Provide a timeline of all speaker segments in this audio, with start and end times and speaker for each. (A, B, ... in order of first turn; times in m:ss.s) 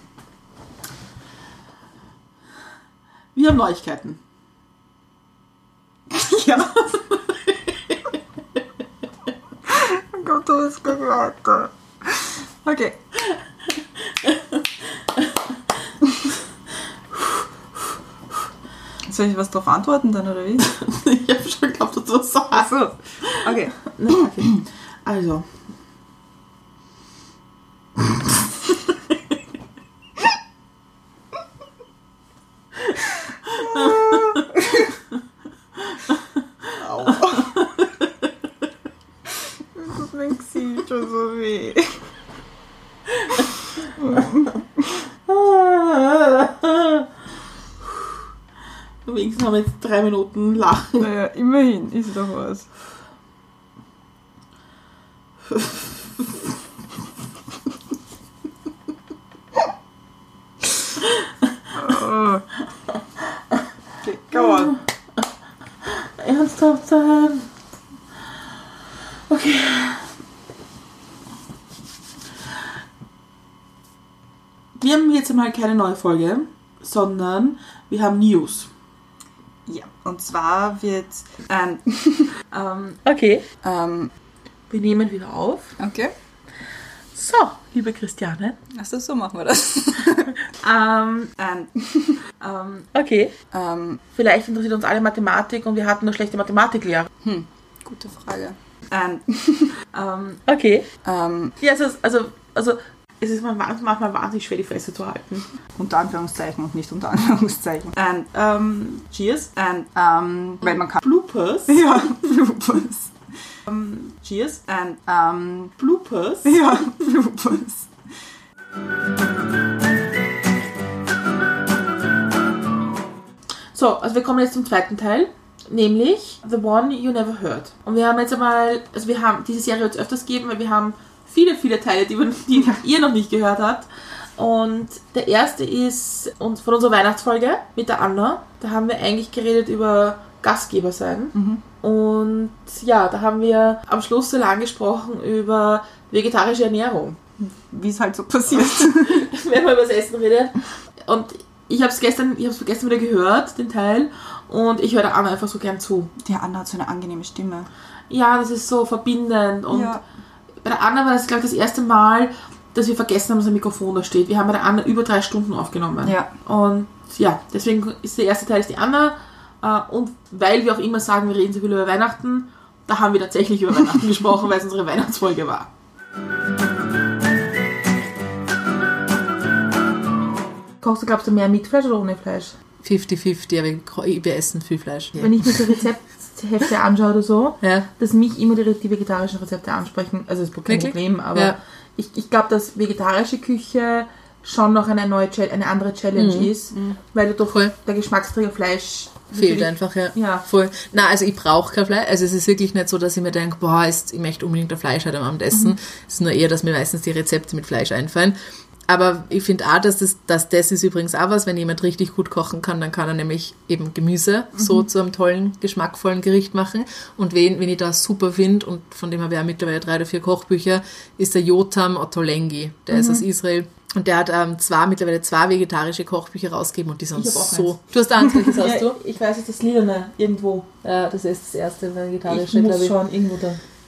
0:03.3-0:04.2 A
0:06.1-0:06.9 B
0:09.7-0:13.0 B
0:19.0-0:20.6 B
0:20.6-0:25.5 A
0:22.5-0:24.2 B
0:33.6-0:34.1 A
0:33.7-0:34.6 B
0:36.7-0:37.6 B
0:39.8-0:42.0 B
0:44.0-0:45.0 B
0:45.3-0:47.1 A
0:49.0-0:51.1 A
0:51.0-0:52.7 B
1:01.7-1:02.4 B
1:04.0-1:04.7 B
1:04.3-1:04.8 A
1:05.8-1:07.5 A
1:09.3-1:10.1 A
1:14.8-1:18.7 A
1:19.7-1:22.3 B
1:22.5-1:23.5 A
1:23.6-1:24.1 B
1:24.7-1:25.8 A
1:25.8-1:26.1 B
1:27.1-1:28.6 A
1:28.7-1:30.3 B
1:30.5-1:31.4 A
1:31.4-1:32.2 B
1:32.4-1:33.4 A
1:33.5-1:34.0 B
1:34.1-1:37.1 A
1:37.2-1:39.7 B
1:39.9-1:40.9 A
1:41.0-1:41.6 B
1:41.6-1:45.5 A
1:45.8-1:48.3 B
1:48.3-1:49.5 A
1:49.5-1:51.1 B
1:50.6-1:52.1 A
1:51.7-1:53.1 B
1:53.7-1:54.6 A
1:54.6-1:55.8 B
1:55.8-1:56.9 A
1:56.4-1:57.9 B
2:03.7-2:27.2 A
2:21.3-2:21.6 B
2:27.4-2:29.2 B
2:28.6-2:36.1 A
2:36.2-2:37.7 B
2:38.1-2:40.0 A
2:39.7-2:40.0 B
2:40.6-2:55.7 A
2:46.0-2:46.3 B
3:00.8-3:02.6 A
3:02.8-3:05.7 C
3:05.2-3:20.4 A
3:07.6-3:07.9 C
3:10.7-3:11.6 C
3:16.1-3:16.5 C
3:19.3-3:28.4 C
3:28.9-3:49.0 C
3:34.6-3:34.8 A
3:42.9-3:43.2 A
3:47.1-3:50.7 A
3:50.8-3:52.9 C
3:52.3-3:53.6 A